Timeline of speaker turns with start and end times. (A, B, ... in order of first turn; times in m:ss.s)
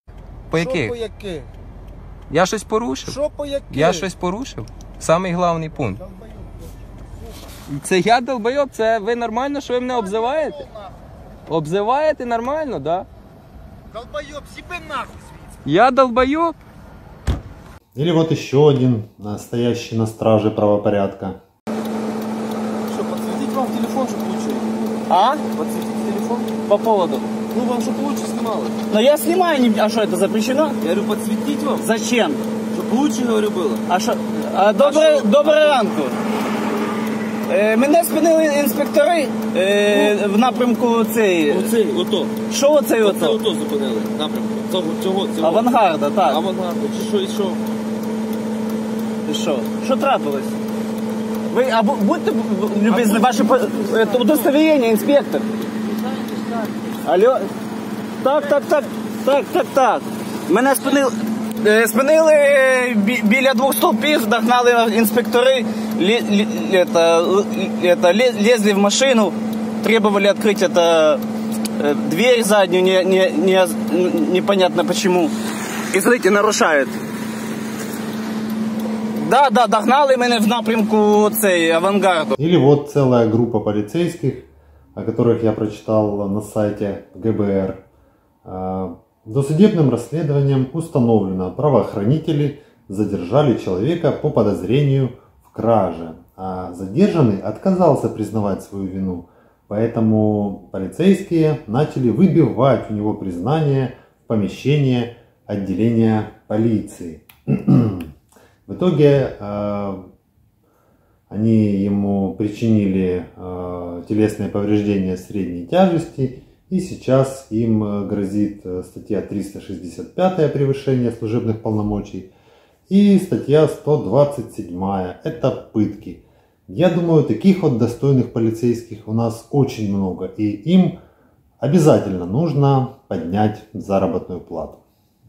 0:00.5-0:01.0 A
0:00.5-0:01.5 B
0:02.3-0:03.2 A
0:03.0-0:04.1 B
0:03.7-0:06.0 A
0:07.7-0:10.6 A
0:10.0-0:10.6 B
0:11.5-0:13.1 A
0:13.9-0:15.3 B
0:15.6-0:16.6 A
0:17.9-0:21.4 C
0:22.9-0:26.5 D
0:25.1-0:25.4 E
0:26.6-0:27.2 E
0:27.5-0:28.7 D
0:28.9-0:30.8 E
0:30.8-0:31.8 D
0:31.8-0:32.4 E
0:32.7-0:33.8 D
0:33.9-0:36.2 E
0:34.8-0:35.5 D
0:37.4-0:41.7 E
0:41.5-0:42.3 D
0:42.5-0:43.4 E
0:43.0-0:45.6 D
0:45.4-0:46.4 E
0:46.3-0:47.6 D
0:49.2-0:50.5 E
0:51.5-0:55.5 E
0:57.0-0:57.5 E
0:58.2-1:11.2 E
1:11.8-1:15.3 E
1:15.9-1:16.9 E
1:19.2-1:22.3 E
1:22.4-1:27.8 C
1:28.4-1:48.1 C
1:48.6-1:50.1 C
1:51.3-2:02.3 C
2:02.9-2:11.0 C
2:11.6-2:14.8 C